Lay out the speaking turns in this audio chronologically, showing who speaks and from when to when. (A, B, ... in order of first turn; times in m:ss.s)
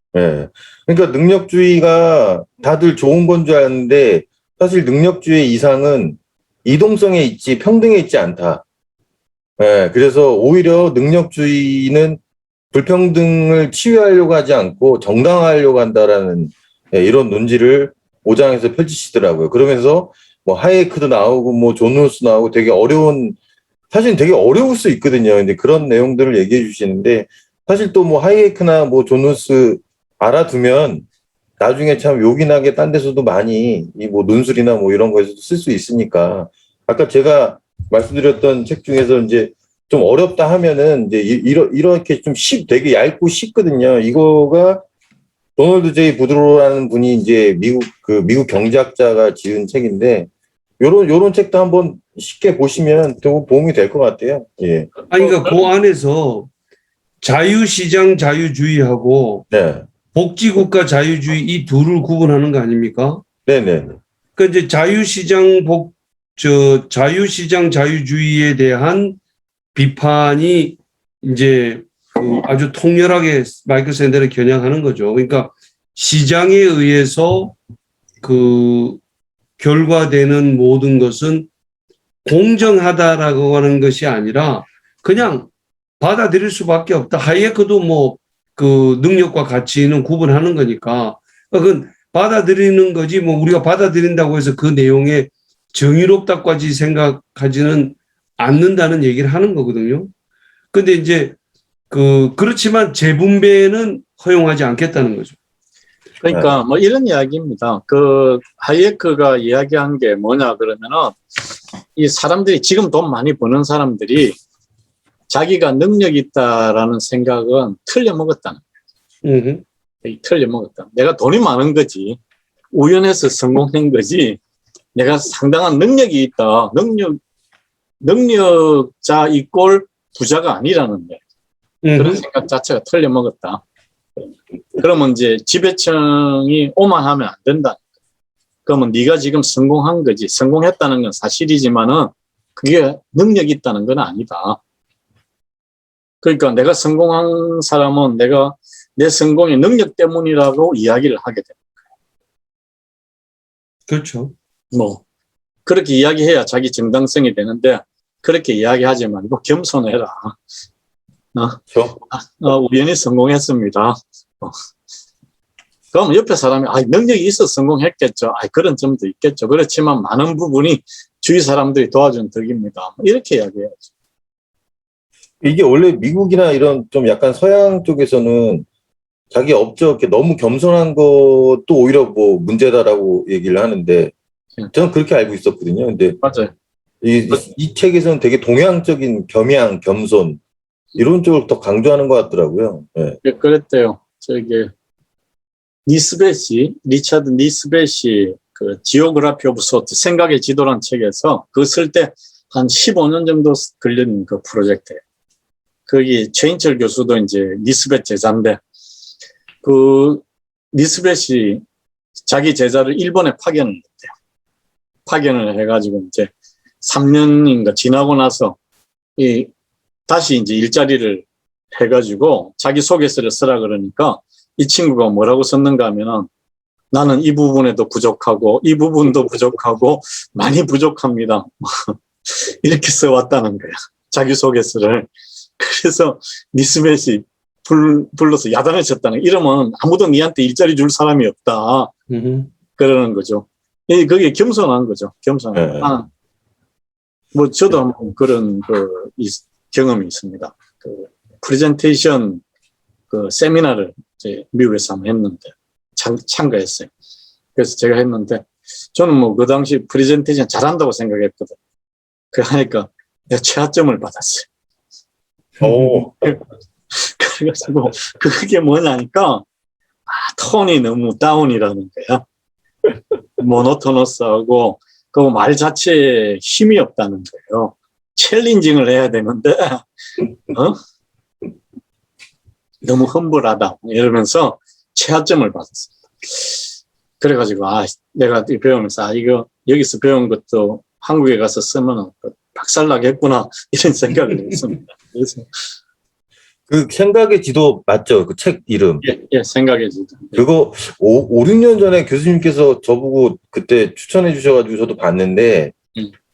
0:00.1-0:08.6 A
0:09.6-0:12.2 A
0:12.7-0:23.4 A
0:23.9-0:31.0 A
0:31.6-0:44.8 A
0:45.6-0:54.9 A
0:55.1-0:55.6 B
0:55.1-0:56.5 C
0:57.2-0:59.5 C
0:59.5-0:59.8 A
1:00.1-1:03.2 C
1:03.5-1:04.0 A
1:04.4-1:09.2 C
1:09.7-1:17.6 C
1:18.2-1:19.0 C
1:19.6-1:21.5 C
1:22.2-1:25.5 C
1:26.0-1:40.1 C
1:40.7-1:41.4 C
1:41.9-1:45.4 C
1:46.2-1:51.2 B
1:46.3-1:46.6 A
1:52.0-1:54.4 B
1:55.3-1:58.6 B
1:59.2-1:59.6 C
2:00.0-2:02.2 B
2:02.7-2:04.4 B
2:05.0-2:07.2 B
2:08.0-2:11.2 B
2:11.8-2:12.2 C
2:12.0-2:13.6 B
2:14.8-2:17.8 B
2:18.7-2:24.6 B
2:26.2-2:31.6 B
2:33.9-2:34.3 C
2:34.7-2:35.0 B
2:35.7-2:40.4 B
2:41.4-2:44.6 B
2:41.7-2:42.0 A
2:45.9-2:53.9 B
2:55.4-2:58.7 A
2:59.3-3:04.1 A
3:04.7-3:06.2 A
3:06.2-3:06.5 B
3:07.0-3:10.4 A
3:11.0-3:13.2 A
3:13.2-3:14.7 B
3:15.9-3:25.0 B
3:25.9-3:28.6 B
3:29.6-3:31.6 B
3:32.3-3:34.1 B
3:35.1-3:36.3 B
3:36.8-3:38.6 B
3:39.2-3:39.5 B
3:40.1-3:41.2 B
3:41.8-3:46.3 B
3:46.9-4:01.9 B
4:02.1-4:02.5 C
4:02.8-4:06.1 B
4:05.6-4:05.9 A
4:07.3-4:12.4 B
4:13.1-4:16.9 B
4:17.6-4:21.6 B
4:22.3-4:24.5 B
4:25.6-4:26.1 A
4:26.9-4:29.4 B
4:30.1-4:32.2 B
4:33.4-4:39.8 B
4:40.5-4:40.8 B
4:42.8-4:46.6 B
4:47.2-4:55.5 B
4:56.7-4:59.0 A
4:59.0-5:00.4 B
5:00.4-5:05.7 A